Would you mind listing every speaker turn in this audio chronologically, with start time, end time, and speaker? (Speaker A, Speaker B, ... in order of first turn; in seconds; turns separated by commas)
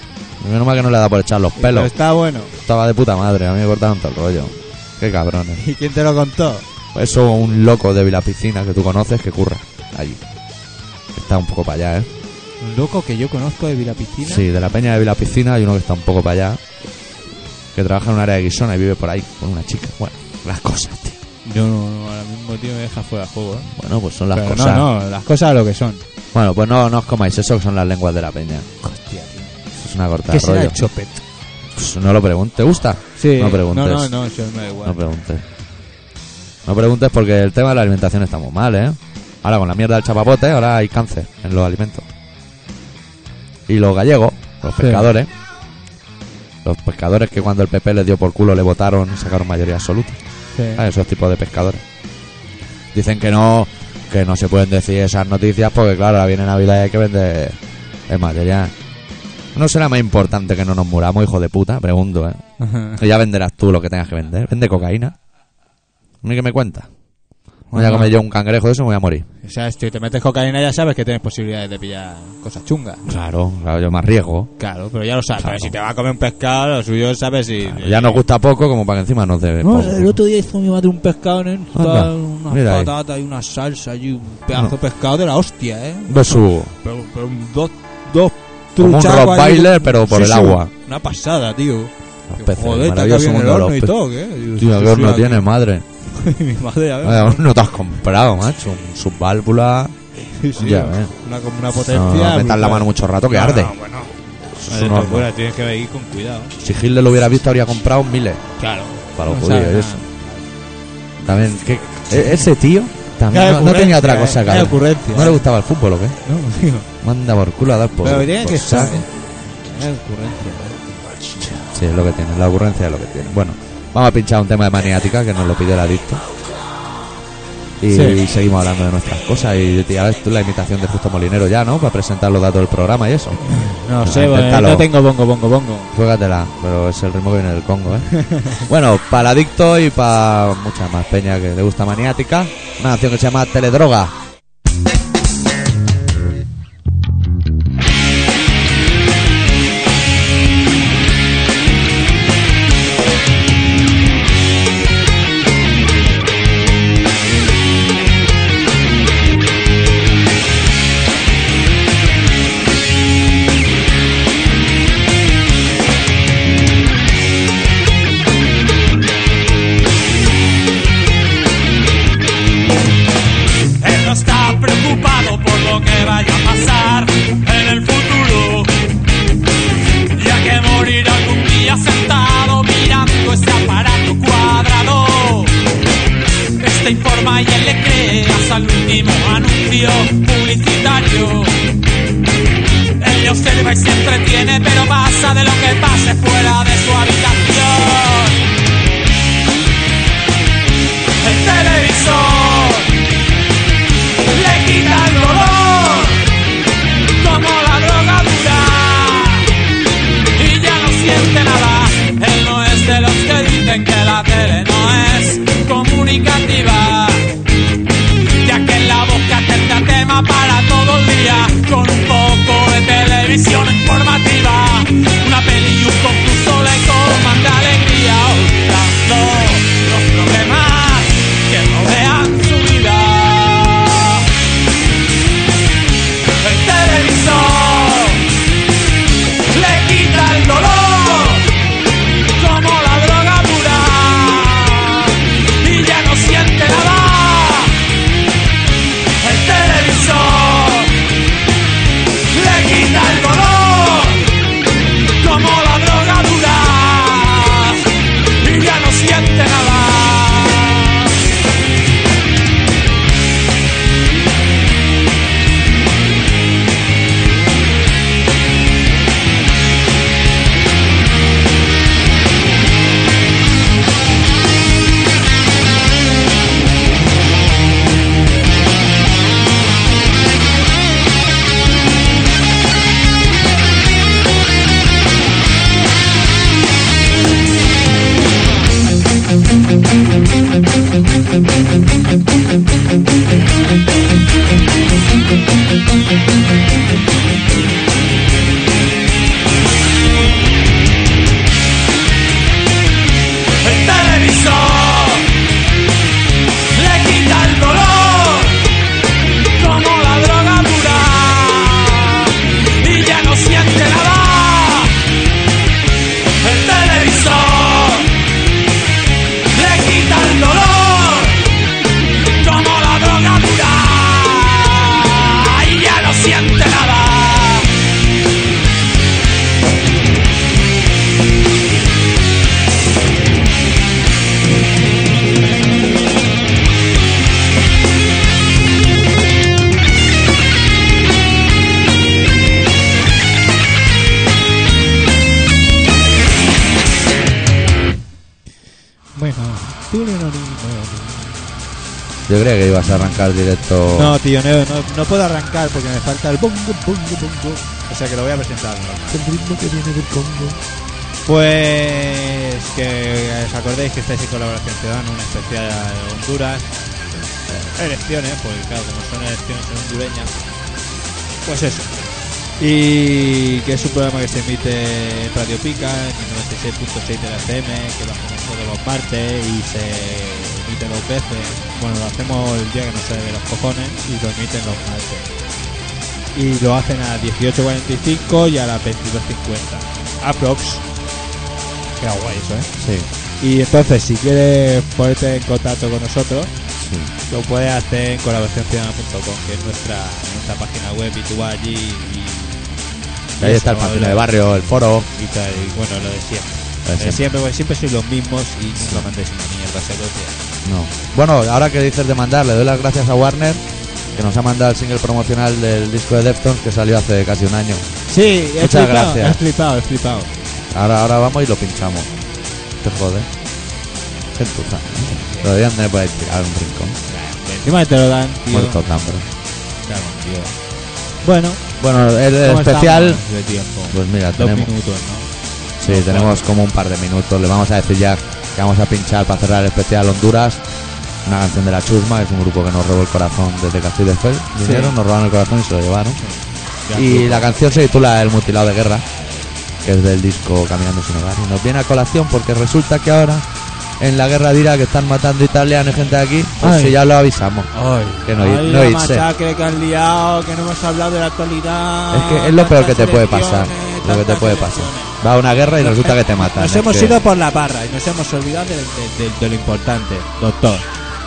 Speaker A: 0.4-1.9, Speaker B: 1.6-2.5, Speaker A: 2.6-5.6, Speaker B: 5.6-6.6, Speaker A: 6.9-10.2, Speaker A: 11.1-12.1, Speaker B: 12.6-14.4, Speaker A: 14.2-16.6, Speaker A: 17.7-21.2, Speaker B: 21.4-23.7, Speaker A: 23.6-24.9, Speaker B: 24.3-26.0, Speaker A: 26.3-28.7, Speaker B: 28.8-29.5, Speaker A: 29.8-30.8, Speaker B: 30.3-31.2, Speaker A: 31.7-34.1, Speaker B: 33.2-35.0, Speaker A: 34.8-35.4, Speaker A: 36.6-42.1, Speaker A: 43.7-45.3, Speaker B: 44.8-45.1, Speaker A: 46.6-50.2, Speaker B: 50.5-50.8, Speaker A: 50.7-51.8, Speaker A: 52.9-58.7, Speaker A: 59.5-62.4, Speaker B: 62.6-63.0, Speaker A: 63.0-65.2, Speaker A: 66.2-66.9, Speaker B: 67.7-68.1, Speaker A: 67.7-69.3, Speaker B: 69.4-73.0, Speaker A: 73.0-74.5, Speaker B: 74.6-78.2, Speaker A: 75.4-75.7, Speaker A: 77.7-80.2, Speaker B: 79.6-95.5, Speaker A: 81.7-82.9, Speaker A: 86.0-86.7, Speaker A: 88.8-90.7, Speaker A: 92.3-94.0, Speaker A: 94.5-95.8, Speaker B: 96.2-97.5, Speaker A: 97.0-100.0, Speaker B: 100.2-104.1, Speaker A: 100.5-101.1, Speaker A: 101.9-103.7, Speaker A: 104.5-105.3, Speaker B: 104.6-106.5, Speaker A: 106.6-108.4, Speaker B: 108.6-110.4, Speaker A: 109.2-110.0, Speaker A: 111.2-116.2, Speaker B: 113.3-115.4, Speaker B: 116.2-116.8, Speaker A: 117.0-119.0, Speaker B: 118.0-119.1, Speaker B: 119.6-120.8, Speaker A: 121.4-126.2, Speaker A: 127.8-133.4, Speaker B: 127.9-128.2, Speaker B: 133.4-135.9, Speaker A: 134.0-134.9, Speaker A: 135.9-144.1, Speaker B: 138.3-138.6, Speaker C: 173.8-178.7, Speaker C: 180.1-185.5, Speaker C: 186.6-191.6, Speaker C: 193.0-198.5, Speaker C: 201.2-203.0, Speaker C: 204.3-206.3, Speaker C: 207.2-209.5, Speaker C: 210.3-217.3, Speaker C: 218.4-234.2, Speaker C: 236.4-238.3, Speaker C: 239.5-241.5, Speaker C: 242.4-247.8, Speaker C: 249.2-251.0, Speaker C: 252.3-254.3, Speaker C: 255.2-257.8, Speaker C: 258.4-261.1, Speaker C: 303.6-305.3, Speaker C: 306.7-308.6, Speaker C: 309.6-315.0, Speaker C: 316.4-318.1, Speaker C: 319.5-321.4, Speaker C: 322.4-327.7, Speaker B: 349.1-351.4, Speaker A: 352.3-354.2, Speaker B: 353.9-359.2, Speaker A: 359.1-360.6, Speaker B: 361.2-366.6, Speaker B: 367.5-370.3, Speaker B: 371.4-371.9, Speaker B: 372.6-385.3, Speaker B: 386.3-390.8, Speaker B: 392.0-392.7, Speaker A: 392.8-393.1, Speaker B: 393.4-396.5, Speaker A: 396.8-397.1, Speaker B: 397.3-402.8, Speaker B: 403.4-404.3, Speaker A: 403.4-405.1, Speaker B: 405.1-410.4, Speaker A: 406.9-407.2, Speaker A: 408.8-409.1, Speaker A: 410.6-417.9, Speaker B: 418.1-420.3, Speaker A: 418.6-419.4, Speaker A: 420.7-422.1, Speaker A: 422.8-423.3, Speaker A: 424.3-427.0, Speaker B: 425.2-425.6, Speaker B: 427.1-428.8, Speaker A: 428.5-429.2, Speaker B: 429.8-430.5, Speaker B: 431.2-431.6, Speaker A: 431.8-433.2, Speaker B: 432.4-435.3, Speaker A: 433.9-434.7, Speaker A: 435.8-440.6, Speaker B: 435.8-436.4, Speaker A: 441.2-446.2, Speaker B: 444.5-445.0, Speaker B: 446.1-447.6, Speaker A: 446.9-449.1, Speaker A: 449.8-453.4, Speaker A: 454.0-457.7, Speaker B: 456.6-457.0, Speaker B: 457.7-465.1, Speaker A: 458.2-459.3, Speaker A: 462.1-467.2, Speaker B: 465.8-470.9